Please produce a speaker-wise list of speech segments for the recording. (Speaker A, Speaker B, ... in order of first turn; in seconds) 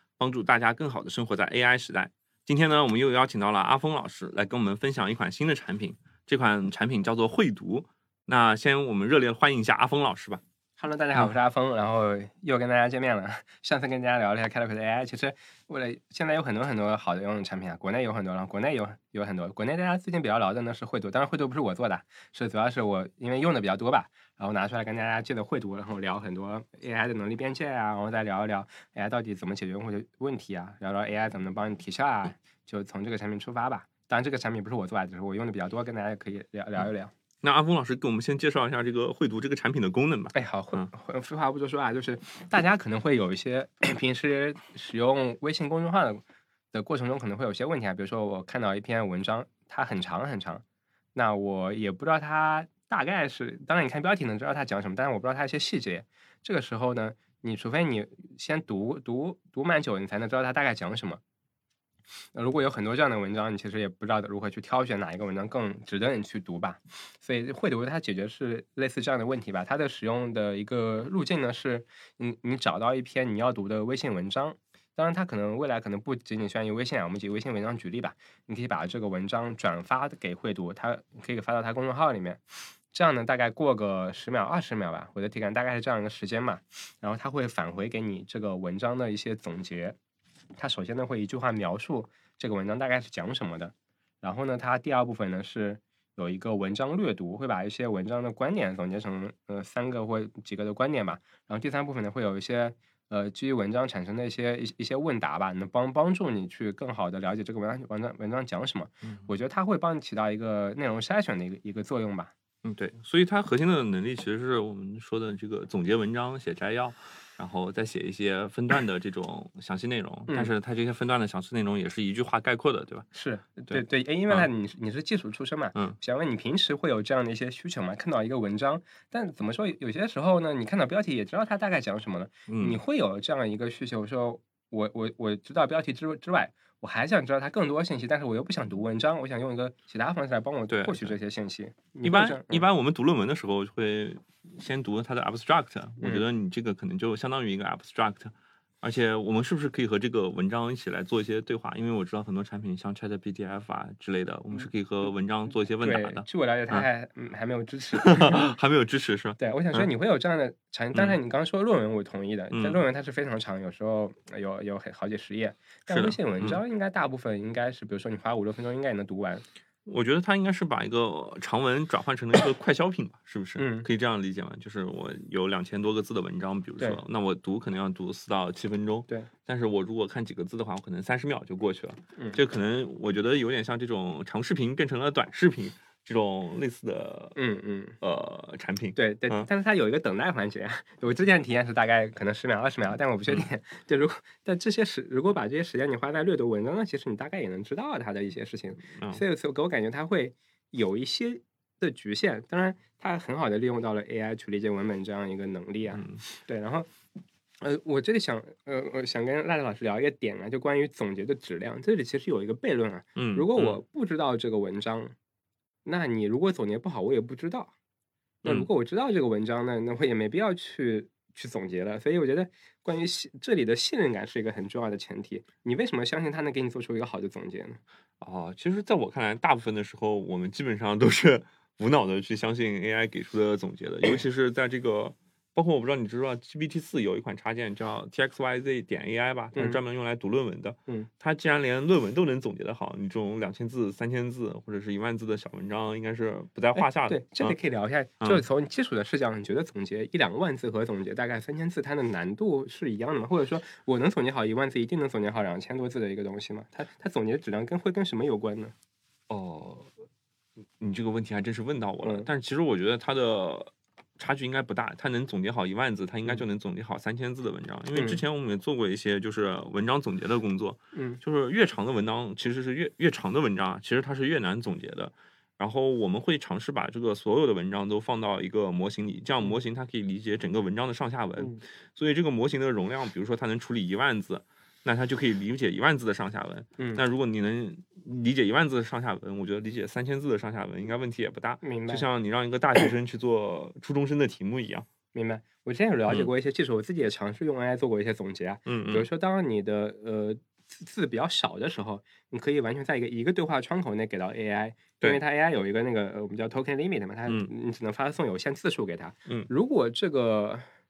Speaker A: 0.2-10.4, 37.4-40.9, 112.6-123.1, 123.7-124.5, 132.5-132.8, 140.7-141.2, 142.0-156.8, 158.0-159.9, 162.5-162.8, 165.9-166.6, 169.8-187.3, 188.0-189.5, 199.0-199.2, 205.9-206.2, 213.2-213.8, 218.4-218.7, 228.2-247.6, 259.3-259.9, 260.8-294.9, 298.7-299.1
Speaker B: 10.8-37.1, 40.3-50.6, 51.1-61.2, 62.3-90.0, 90.5-112.3, 123.1-142.6, 146.0-146.2, 155.8-158.5, 159.4-169.4, 173.6-173.9, 182.2-182.4, 187.3-188.0, 188.9-206.9, 207.6-215.1, 215.8-217.7, 218.4-227.8, 239.5-239.8, 246.8-258.7, 262.0-262.3, 267.9-268.2, 270.9-271.2, 291.6-292.0, 295.1-310.6